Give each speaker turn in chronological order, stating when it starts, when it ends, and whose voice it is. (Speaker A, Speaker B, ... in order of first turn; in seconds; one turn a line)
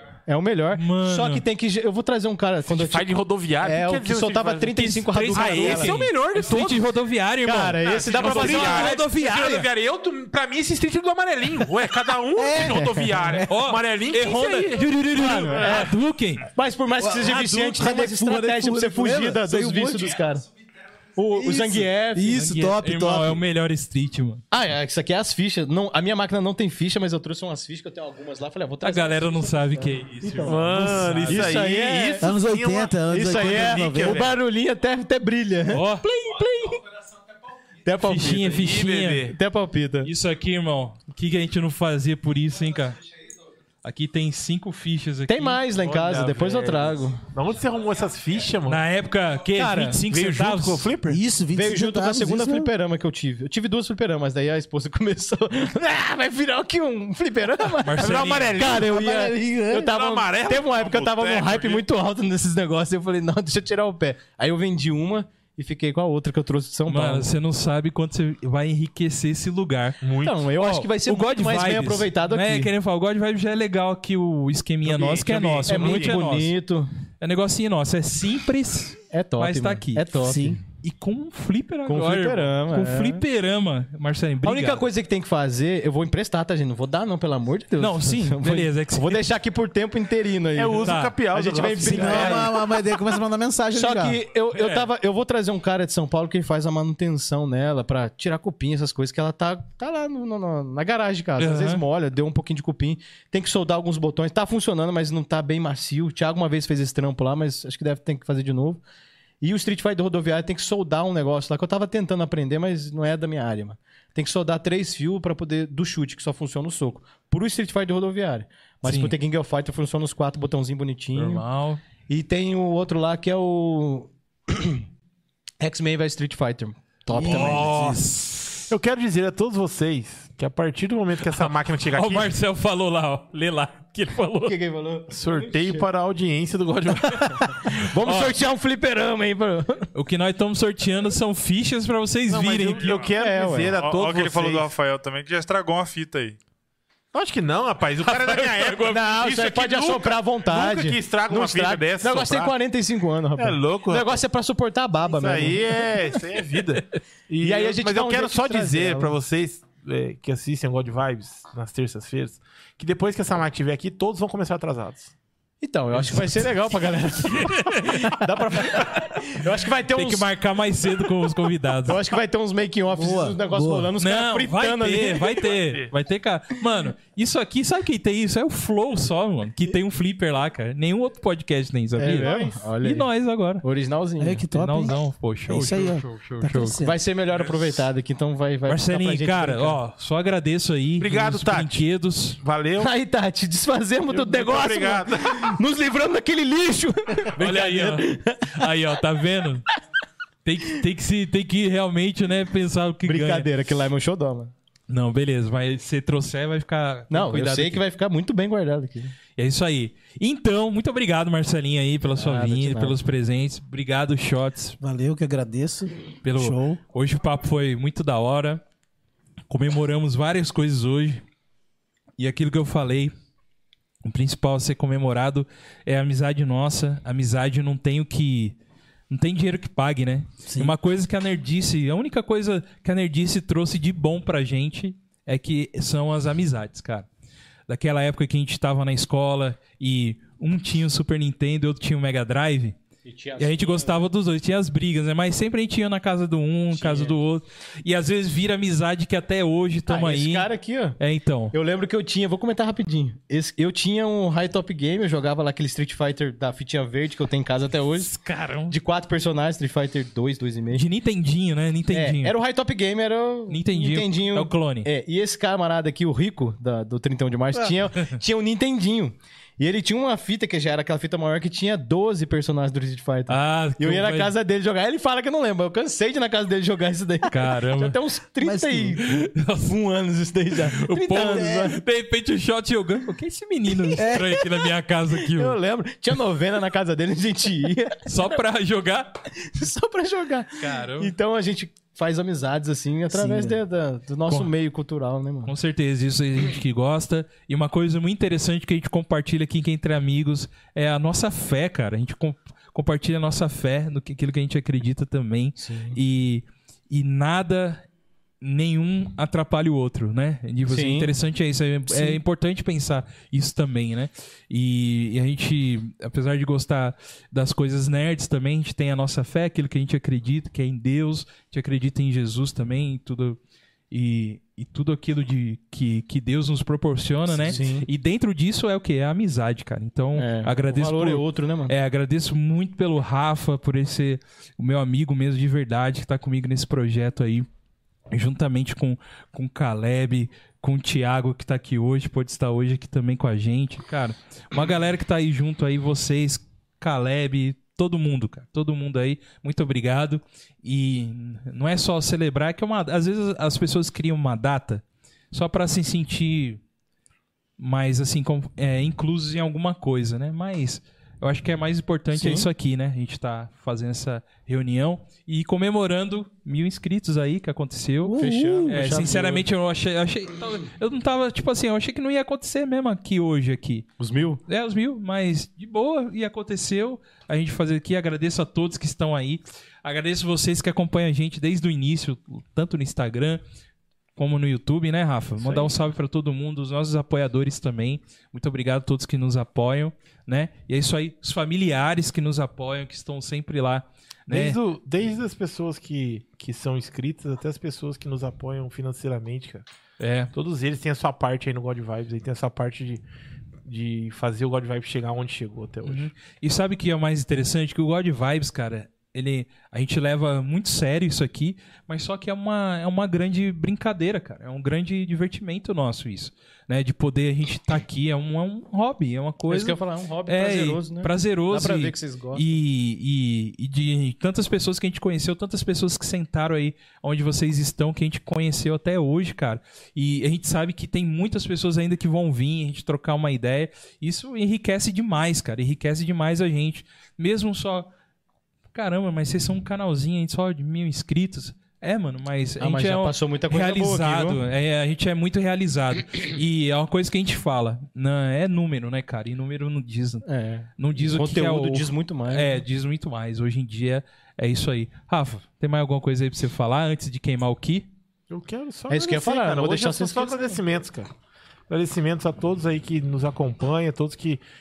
Speaker A: 0.3-6.0
Speaker B: 0.7-1.4
Speaker C: 2.7-6.9
Speaker B: 4.8-9.7
Speaker A: 7.4-9.1
Speaker C: 7.8-14.9
Speaker D: 12.4-13.5
Speaker A: 12.6-13.1
Speaker B: 13.5-16.5
Speaker A: 15.1-16.0
Speaker A: 16.5-20.5
Speaker D: 17.0-20.2
Speaker A: 21.2-22.4
Speaker D: 21.3-23.4
Speaker B: 22.3-24.4
Speaker A: 24.5-32.3
Speaker B: 28.8-31.5
Speaker C: 30.4-34.4
Speaker D: 32.2-34.3
Speaker A: 33.1-35.9
Speaker B: 35.7-36.8
Speaker A: 37.8-38.6
Speaker B: 38.0-39.3
Speaker C: 38.5-39.4
Speaker A: 39.3-40.1
Speaker B: 40.0-43.0
Speaker B: 43.8-45.6
Speaker A: 45.3-47.2
Speaker C: 45.8-48.9
Speaker B: 48.7-50.9
Speaker A: 49.5-50.0
Speaker C: 50.1-51.2
Speaker D: 51.1-52.7
Speaker A: 51.5-67.3
Speaker B: 57.8-58.5
Speaker C: 58.0-61.8
Speaker D: 58.6-59.9
Speaker E: 60.7-61.8
Speaker B: 66.9-70.0
Speaker C: 70.0-70.5
Speaker A: 70.2-72.7
Speaker B: 70.6-76.5
Speaker C: 74.8-76.2
Speaker A: 75.7-76.9
Speaker B: 77.2-80.1
Speaker A: 79.1-80.6
Speaker D: 80.2-80.6
Speaker B: 80.8-84.9
Speaker A: 81.9-83.2
Speaker A: 84.4-92.6
Speaker B: 87.8-89.2
Speaker C: 90.5-92.5
Speaker B: 90.8-91.2
Speaker D: 91.8-94.2
Speaker A: 93.7-108.8
Speaker B: 94.5-94.9
Speaker B: 101.4-101.8
Speaker A: 109.4-121.4
Speaker B: 118.8-119.2
Speaker B: 121.1-121.8
Speaker A: 122.1-124.8
Speaker A: 125.6-127.8
Speaker D: 127.1-128.0
Speaker B: 127.2-128.7
Speaker C: 128.7-132.3
Speaker B: 131.4-134.6
Speaker A: 134.4-135.9
Speaker C: 135.1-137.4
Speaker A: 137.3-139.9
Speaker B: 138.0-138.3
Speaker B: 139.9-143.0
Speaker C: 142.3-144.7
Speaker E: 142.8-143.1
Speaker A: 143.1-143.8
Speaker E: 143.8-146.4
Speaker C: 147.1-152.5
Speaker A: 148.7-155.6
Speaker C: 153.4-154.2
Speaker C: 155.1-165.1
Speaker A: 157.4-159.1
Speaker A: 165.6-170.3
Speaker B: 166.0-166.5
Speaker B: 167.0-168.9
Speaker B: 169.9-172.0
Speaker A: 171.8-175.5
Speaker D: 172.9-173.9
Speaker B: 174.0-183.6
Speaker C: 175.5-175.9
Speaker A: 182.0-183.1
Speaker C: 182.1-182.5
Speaker A: 183.6-184.5
Speaker D: 184.2-187.0
Speaker B: 184.5-186.8
Speaker A: 186.7-189.8
Speaker C: 187.3-187.8
Speaker B: 188.7-192.4
Speaker C: 191.0-191.8
Speaker C: 192.4-192.9
Speaker A: 192.8-198.6
Speaker C: 194.1-195.6
Speaker B: 197.4-199.7
Speaker B: 200.4-203.5
Speaker A: 203.1-204.5
Speaker B: 204.9-207.8
Speaker A: 207.1-209.2
Speaker B: 209.4-214.8
Speaker A: 212.2-213.0
Speaker D: 214.8-216.8
Speaker B: 216.2-218.6
Speaker B: 219.5-221.2
Speaker B: 222.2-223.1
Speaker B: 224.0-228.6
Speaker B: 229.1-237.1
Speaker D: 230.5-230.8
Speaker B: 237.7-242.8
Speaker A: 243.1-244.0
Speaker B: 243.4-251.5
Speaker A: 246.7-247.2
Speaker A: 249.9-251.0
Speaker A: 251.5-258.1
Speaker B: 258.0-258.8
Speaker A: 258.7-260.9
Speaker B: 260.7-262.4
Speaker A: 261.9-281.8
Speaker B: 263.5-264.9
Speaker B: 267.6-268.2
Speaker B: 273.3-274.3
Speaker B: 277.3-278.0
Speaker D: 278.4-279.0
Speaker B: 279.0-279.7
Speaker B: 280.6-285.6
Speaker D: 281.3-281.8
Speaker A: 284.0-284.3
Speaker D: 284.0-284.4
Speaker A: 285.3-288.4
Speaker B: 288.1-289.2
Speaker A: 289.4-295.5
Speaker B: 290.6-291.1
Speaker D: 293.1-293.6
Speaker B: 294.3-294.5
Speaker B: 295.5-307.9
Speaker A: 305.6-306.0
Speaker B: 308.4-323.4
Speaker A: 310.7-311.1
Speaker A: 311.9-312.2
Speaker B: 323.9-337.5
Speaker A: 327.4-327.9
Speaker A: 330.2-331.7
Speaker B: 338.1-356.6
Speaker B: 357.6-373.9
Speaker A: 362.1-362.5
Speaker D: 368.0-368.8
Speaker A: 368.2-369.4
Speaker A: 374.0-374.4
Speaker B: 374.5-383.4
Speaker B: 384.2-394.6
Speaker C: 394.3-399.6
Speaker B: 400.0-400.3
Speaker C: 400.3-403.0
Speaker C: 403.7-406.1
Speaker B: 405.9-437.9
Speaker A: 419.5-422.4
Speaker B: 438.7-450.3
Speaker A: 442.6-444.4
Speaker A: 450.2-452.6
Speaker B: 450.8-457.9
Speaker C: 458.3-461.1
Speaker A: 458.9-460.6
Speaker C: 461.7-464.4